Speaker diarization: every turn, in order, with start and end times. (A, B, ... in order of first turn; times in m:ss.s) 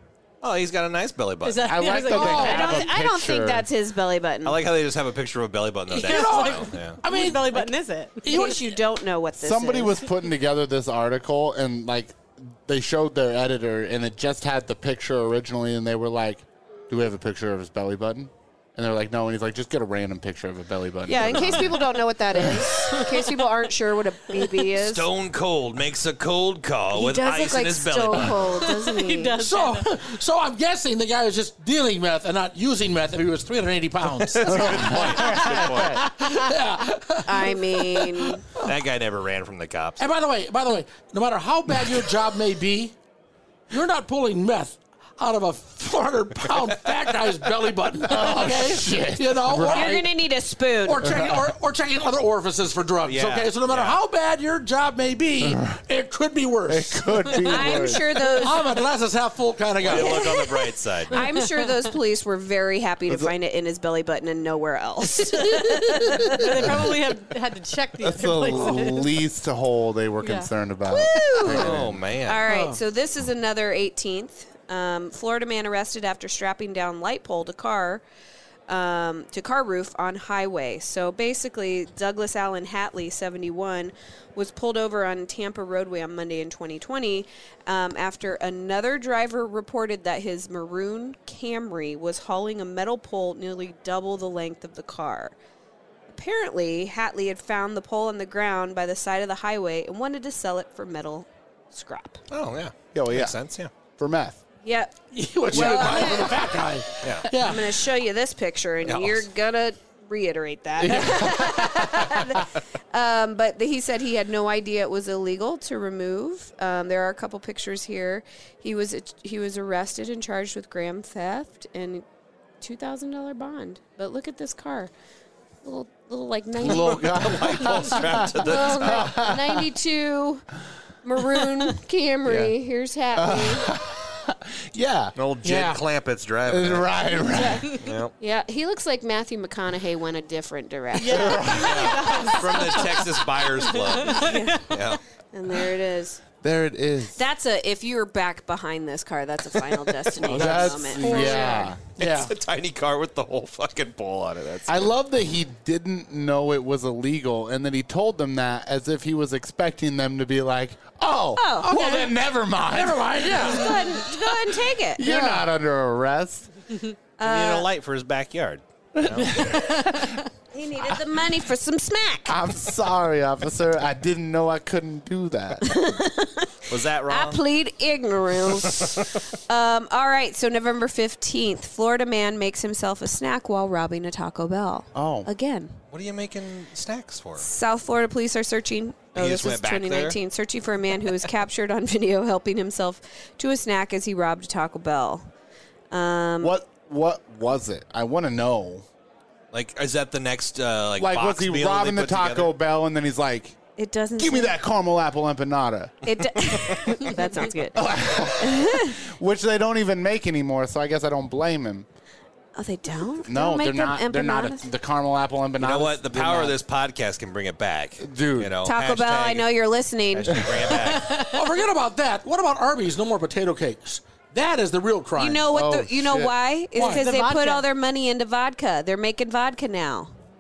0:00.4-0:02.2 A
0:01.4-0:02.8 B
0:01.6-0:03.7 C
0:02.1-0:04.6 D
0:02.3-0:02.8 E
0:04.4-0:07.0 A
0:06.0-0:08.8 E
0:06.0-0:08.4 B
0:08.3-0:10.0 D
0:09.4-0:22.7 C
0:21.1-0:25.1 D
0:24.7-0:28.6 A
0:26.9-0:29.4 D
0:28.7-0:29.9 B
0:29.4-0:38.7 E
0:34.3-0:36.0 A
0:34.4-0:36.1 C
0:37.2-0:38.4 D
0:38.6-0:40.0 A
0:40.0-0:42.9 E
0:43.7-0:50.1 E
0:48.0-0:50.0 C
0:49.6-0:51.1 D
0:50.8-0:57.2 E
0:51.0-0:51.4 C
0:53.0-0:54.0 A
0:55.4-0:55.8 C
0:56.7-0:58.2 C
0:57.5-0:58.7 D
0:58.4-1:00.3 E
0:59.8-1:01.3 A
0:59.9-1:06.5 D
1:03.1-1:03.3 C
1:05.6-1:09.1 B
1:08.0-1:12.0 C
1:10.2-1:10.5 B
1:10.9-1:18.0 D
1:11.4-1:12.4 A
1:12.4-1:12.8 E
1:18.7-1:35.4 D
1:36.1-1:42.2 D
1:42.3-1:43.7 A
1:42.9-1:43.4 C
1:44.0-1:44.4 C
1:44.6-1:44.9 D
1:45.1-1:47.8 E
1:45.5-1:46.5 D
1:45.5-1:46.3 C
1:47.0-1:47.3 A
1:47.3-2:02.0 D
1:48.8-1:49.3 A
1:50.8-1:52.4 C
2:02.6-2:04.9 D
2:05.6-2:07.1 D
2:06.6-2:09.7 C
2:06.6-2:09.1 A
2:08.3-2:10.4 D
2:11.0-2:13.7 D
2:12.2-2:12.5 C
2:13.2-2:15.2 C
2:15.2-2:16.9 A
2:15.4-2:15.8 E
2:16.5-2:17.8 C
2:17.4-2:17.8 B
2:17.8-2:18.1 A
2:18.2-2:21.6 D
2:21.0-2:24.7 B
2:21.1-2:22.0 C
2:21.5-2:25.0 A
2:24.2-2:24.7 D
2:25.3-2:26.2 D
2:26.4-2:27.2 C
2:27.2-2:31.7 D
2:30.2-2:31.3 E
2:30.2-2:31.8 C
2:31.1-2:31.7 B
2:32.0-2:32.3 E
2:32.0-2:34.9 A
2:34.7-2:43.8 C
2:41.4-2:41.7 D
2:41.6-2:43.9 E
2:43.3-2:45.1 D
2:45.0-2:46.5 C
2:45.0-2:45.4 E
2:47.2-2:47.7 D
2:47.2-2:49.3 A
2:49.0-2:50.0 C
2:50.5-2:52.4 D
2:52.3-2:55.8 C
2:55.6-3:05.8 D
2:56.7-2:57.4 A
3:05.0-3:05.3 C
3:05.9-3:07.5 A
3:07.4-3:15.3 D
3:09.2-3:10.2 A
3:15.9-3:16.6 D
3:16.4-3:18.8 C
3:19.5-3:22.5 A
3:21.0-3:23.6 C
3:23.8-3:24.6 D
3:24.2-3:26.5 C
3:26.0-3:29.0 D
3:27.7-3:31.9 C
3:32.6-3:34.7 D
3:33.2-3:36.6 C
3:35.6-3:39.5 A
3:38.0-3:38.5 C
3:38.6-3:40.7 D
3:40.1-3:41.3 A
3:40.9-3:41.3 B
3:41.3-3:45.5 E
3:45.2-3:50.1 D
3:45.5-3:46.3 C
3:46.8-3:47.1 E
3:46.8-3:47.7 B